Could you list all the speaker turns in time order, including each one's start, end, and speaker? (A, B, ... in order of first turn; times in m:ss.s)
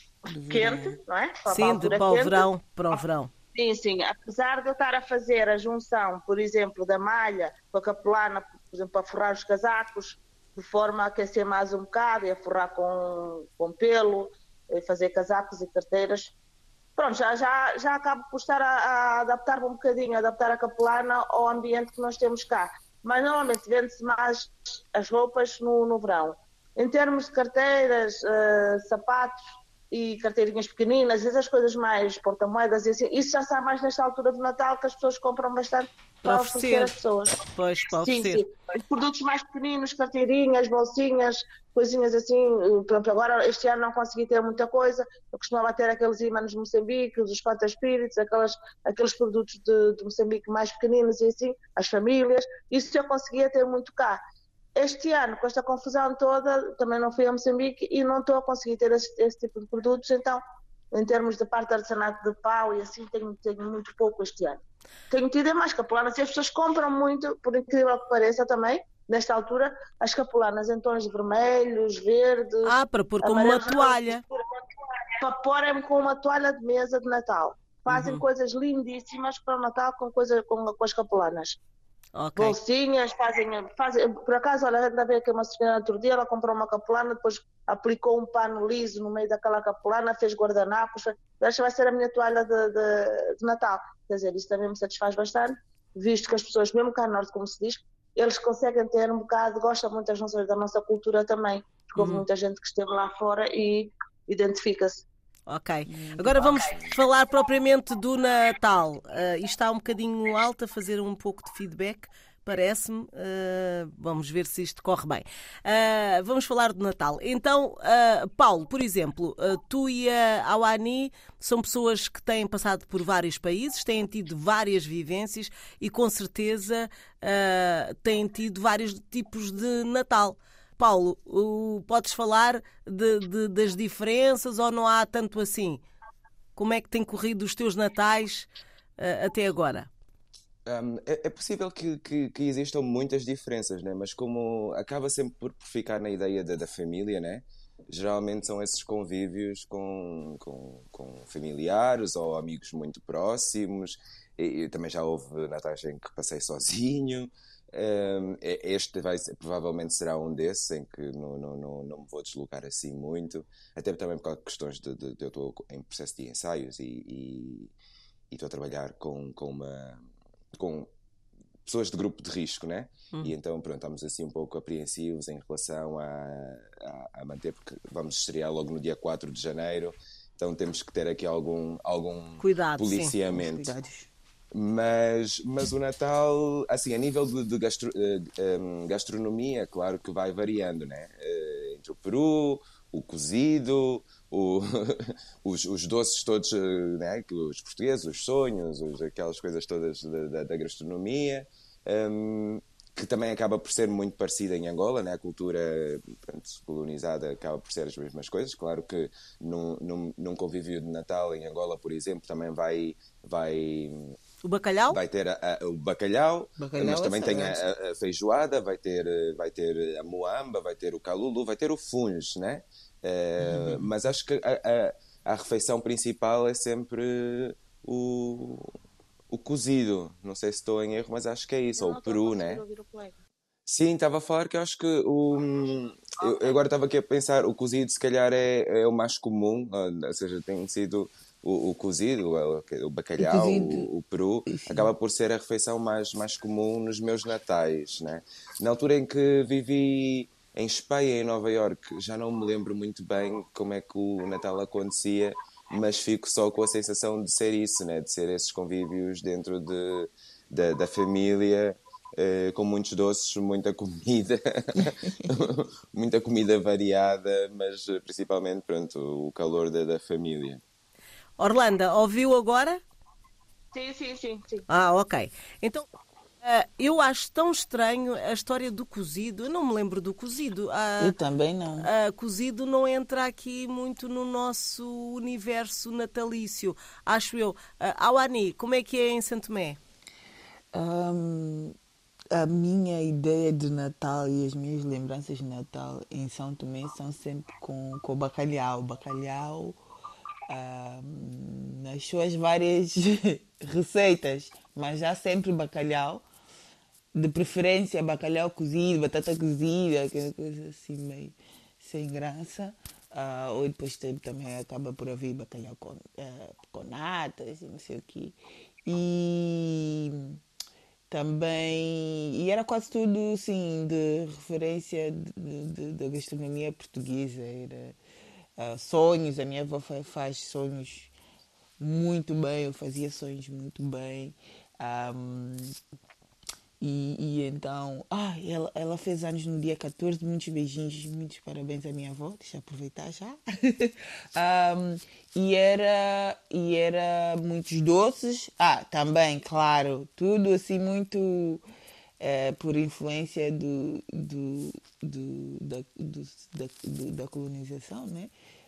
0:00.3-0:01.0 A
0:00.4-0:03.0 B
0:01.5-0:03.3 C
0:03.5-0:16.3 B
0:17.0-0:29.3 B
0:29.9-0:37.4 B
0:36.2-0:38.4 C
0:38.0-0:54.2 B
0:54.8-1:00.4 B
1:00.9-1:14.4 B
1:12.6-1:14.2 C
1:15.2-1:21.6 B
1:17.9-1:18.2 C
1:22.2-1:22.6 C
1:22.4-1:45.0 B
1:42.0-1:42.2 C
1:45.5-2:15.8 C
1:45.9-1:46.7 A
2:16.6-2:18.5 C
2:19.0-2:19.9 C
2:20.6-2:47.7 D
2:48.3-2:50.0 D
2:50.5-2:50.9 D
2:51.6-3:03.7 D
3:02.4-3:03.1 C
3:03.3-3:04.1 A
3:04.5-3:34.2 D
3:34.4-3:35.0 C
3:34.9-3:48.8 D
3:36.6-3:37.6 A
3:43.4-3:43.8 A
3:49.3-3:52.6 D
3:51.8-3:53.2 B
3:53.7-4:30.6 D
3:56.2-3:56.5 B
4:03.2-4:03.9 A
4:04.5-4:04.9 A
4:31.4-4:32.8 C
4:33.7-4:34.6 B
4:34.7-4:35.8 C
4:36.4-4:41.2 C
4:41.0-4:41.9 A
4:41.8-4:49.8 C
4:50.7-4:51.7 A
4:52.3-4:59.8 A
5:00.5-5:06.2 A
5:07.1-5:20.4 A
5:21.1-5:28.0 A
5:28.6-5:31.1 A
5:31.8-5:35.7 A
5:36.8-5:51.6 A
5:52.2-5:58.3 A